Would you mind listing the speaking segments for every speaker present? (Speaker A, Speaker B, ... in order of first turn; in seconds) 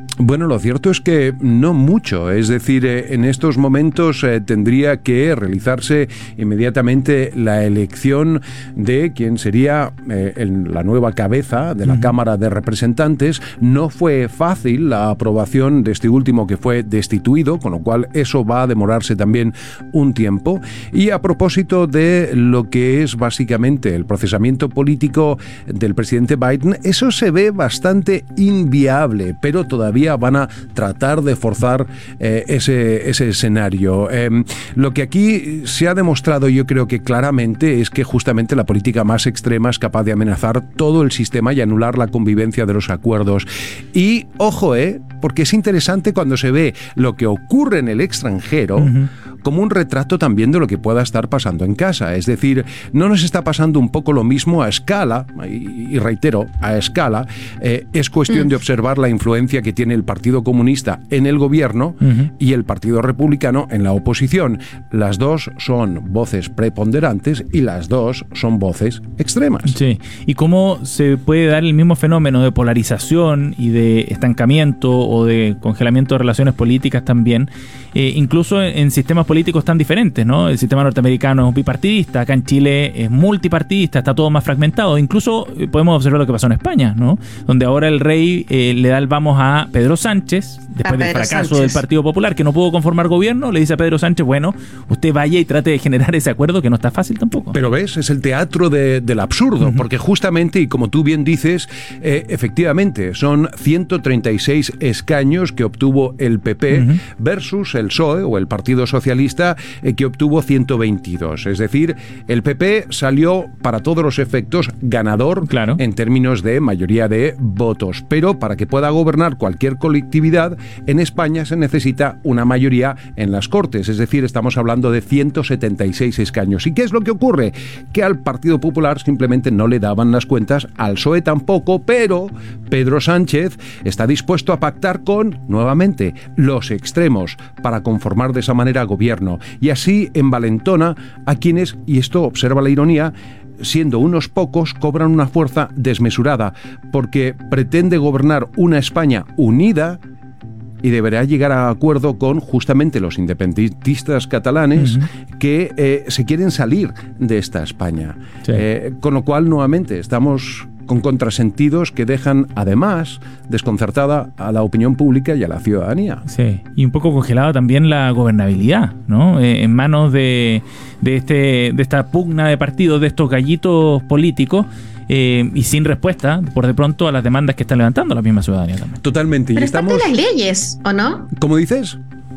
Speaker A: 0.2-69.8, 97.5-150.0, 150.8-166.2, 179.0-180.1, 181.3-182.0
Speaker B: 11.9-12.1, 48.8-49.1, 62.0-62.3, 69.7-97.6, 106.7-107.0, 115.5-115.8, 154.8-155.1, 166.3-179.0
Speaker C: 90.8-91.8, 179.6-181.3